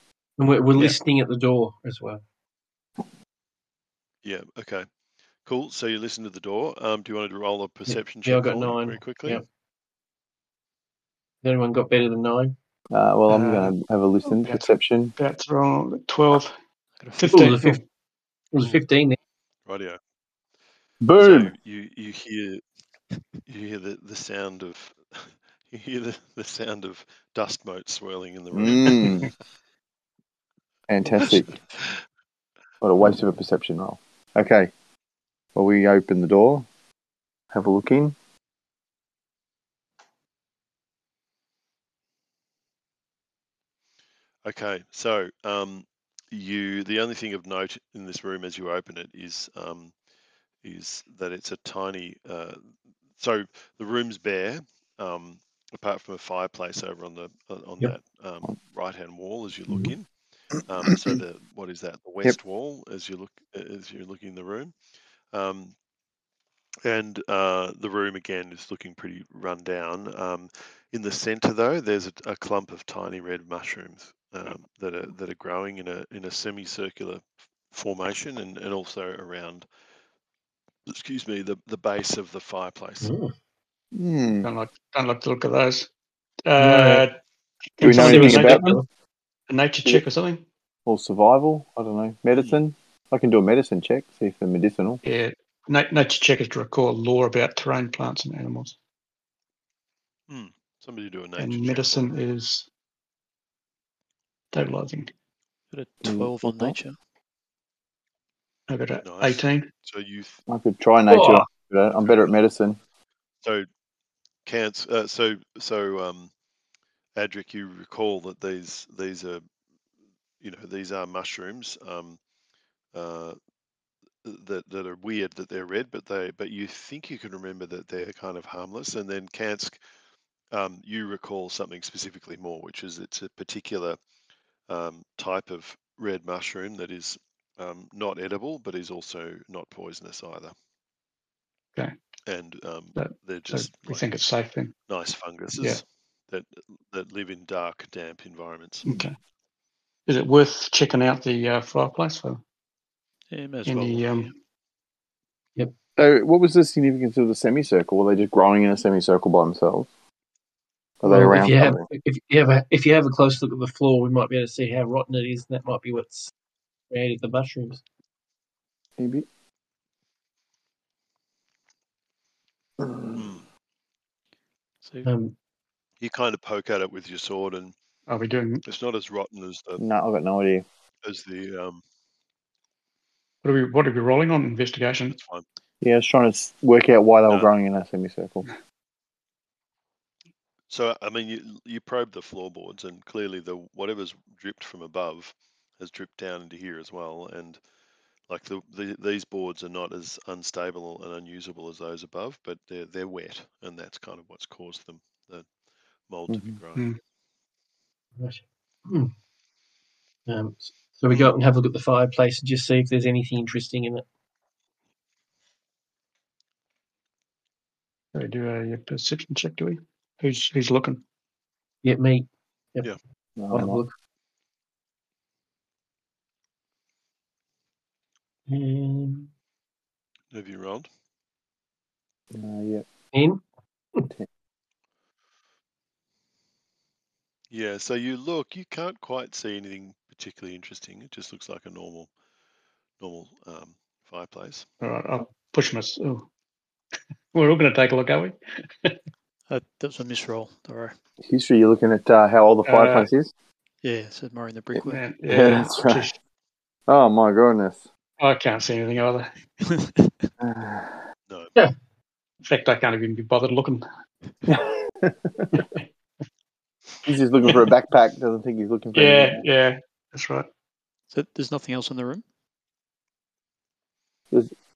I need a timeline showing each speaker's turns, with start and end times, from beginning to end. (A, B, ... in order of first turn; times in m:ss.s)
0:00.4-0:02.2 A
0:04.2-0:04.9 B
0:05.4-0:09.4 B
0:07.9-0:09.4 A
0:11.4-0:12.5 A
0:12.9-0:15.1 C
0:13.3-0:13.7 D
0:14.2-0:16.5 D
0:17.0-0:17.4 E
0:17.2-0:17.8 D
0:17.3-0:17.8 A
0:18.5-0:19.2 A
0:19.6-0:20.0 B
0:21.0-0:21.5 C
0:21.2-0:22.6 B
0:23.4-0:29.3 B
0:28.5-0:29.3 C
0:30.9-0:31.6 C
0:31.2-0:32.0 B
0:32.8-0:34.7 C
0:35.5-0:36.7 C
0:37.5-0:38.1 C
0:44.4-0:49.9 B
0:50.6-0:52.6 B
0:53.2-1:04.7 B
1:05.3-1:05.7 B
1:06.8-1:19.6 B
1:20.9-1:23.1 B
1:23.0-1:23.3 A
1:23.9-1:24.5 C
1:24.4-1:25.9 D
1:26.4-1:27.2 D
1:26.6-1:27.1 A
1:27.8-1:28.7 D
1:27.8-1:28.8 C
1:27.8-1:28.8 A
1:29.5-1:30.4 D
1:30.8-1:35.0 C
1:32.3-1:32.6 B
1:35.0-1:38.8 D
1:40.3-1:42.1 B
1:41.4-1:42.7 D
1:44.5-1:45.1 D
1:45.7-1:47.0 E
1:46.0-1:46.8 C
1:48.7-1:49.7 D
1:49.0-1:50.4 B
1:50.5-1:52.8 C
1:51.1-1:51.4 A
1:52.0-1:52.3 B
1:54.4-1:56.3 B
1:57.2-1:59.4 B
2:00.4-2:02.2 B
2:02.9-2:03.4 B
2:04.2-2:09.8 B
2:10.5-2:14.0 B
2:14.7-2:20.5 B
2:22.2-2:24.1 B
2:23.0-2:24.7 D
2:24.9-2:28.8 B
2:28.8-2:29.1 D
2:30.1-2:32.4 D
2:33.3-2:34.3 E
2:33.6-2:34.3 D
2:36.0-2:39.9 C
2:41.0-2:41.9 C
2:41.0-2:46.3 A
2:46.9-2:47.8 A
2:49.0-2:49.2 C
2:52.8-2:53.2 C
2:53.1-2:53.4 B
2:54.8-2:55.1 E
2:55.0-2:55.3 A
2:56.0-2:57.7 B
2:58.1-2:58.6 D
2:58.6-2:59.8 B
2:59.8-3:00.6 C
3:01.0-3:01.8 B
3:03.4-3:05.2 D
3:05.1-3:05.4 B
3:05.8-3:08.4 C
3:10.7-3:17.6 B
3:18.3-3:25.5 B
3:26.1-3:26.9 B
3:26.3-3:26.6 C
3:28.2-3:29.1 A
3:30.3-3:34.0 A
3:31.1-3:31.4 B
3:38.1-3:41.0 D
3:41.8-3:42.9 A
3:43.4-3:43.8 C
3:43.5-3:43.9 A
3:48.5-3:49.3 A
3:50.3-3:50.9 B
3:52.3-3:52.9 C
3:53.1-3:53.4 A
3:57.5-4:02.1 B
4:03.0-4:04.7 B
4:04.8-4:06.3 D
4:07.3-4:09.0 D
4:09.5-4:10.9 E
4:11.2-4:13.3 C
4:12.6-4:13.1 D
4:13.8-4:15.1 E
4:14.8-4:16.1 C
4:14.9-4:16.1 D
4:16.9-4:17.8 C
4:18.2-4:19.3 D
4:19.6-4:20.3 E
4:20.4-4:21.0 C
4:22.4-4:23.8 D
4:24.5-4:25.6 C
4:27.0-4:29.4 C
4:28.9-4:30.5 D
4:31.1-4:32.2 E